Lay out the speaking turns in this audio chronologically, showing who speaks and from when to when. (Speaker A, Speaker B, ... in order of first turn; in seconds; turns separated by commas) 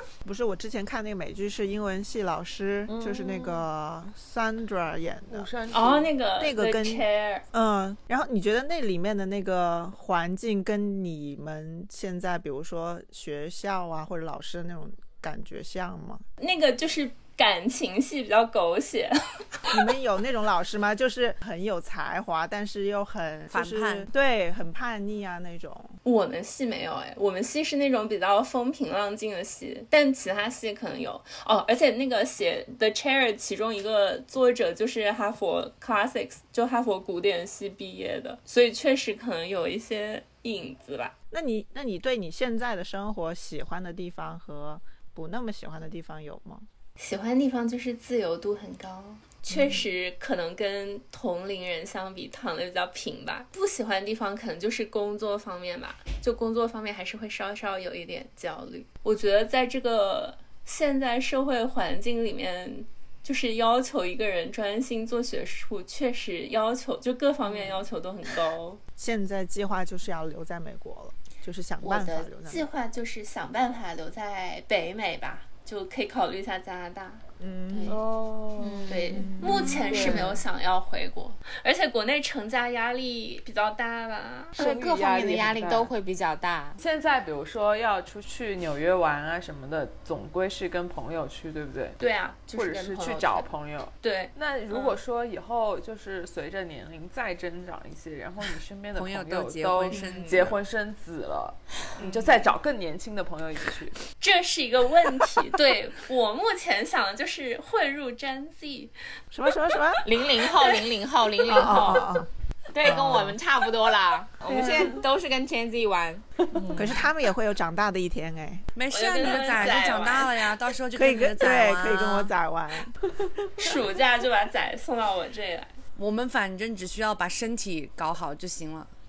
Speaker A: 0.2-5.5, Speaker B: 2.9-3.6, Speaker B: 5.3-6.1, Speaker C: 5.7-7.4, Speaker A: 6.4-16.2, Speaker C: 16.4-19.1, Speaker A: 19.7-25.9, Speaker D: 23.5-24.1, Speaker C: 26.0-41.1, Speaker A: 41.3-46.6, Speaker C: 47.0-68.8, Speaker A: 49.5-49.8, Speaker A: 69.0-72.7, Speaker C: 71.8-78.0, Speaker A: 77.4-78.0, Speaker B: 77.9-80.3, Speaker E: 78.6-79.3, Speaker C: 78.9-84.6, Speaker A: 79.1-80.2, Speaker B: 84.5-85.9, Speaker E: 84.6-86.8, Speaker B: 86.8-92.0, Speaker C: 92.0-93.5, Speaker B: 92.5-104.0, Speaker C: 94.0-95.0, Speaker D: 98.9-100.5, Speaker C: 99.9-100.5, Speaker C: 104.2-108.9, Speaker A: 109.3-110.0, Speaker E: 110.0-112.0, Speaker A: 111.5-112.3, Speaker C: 111.5-112.1, Speaker E: 112.7-117.0, Speaker A: 112.8-113.4, Speaker C: 114.5-115.0, Speaker A: 116.7-118.6, Speaker D: 118.7-122.3, Speaker C: 118.9-120.3, Speaker A: 120.9-122.9, Speaker C: 123.6-125.7, Speaker D: 126.0-128.9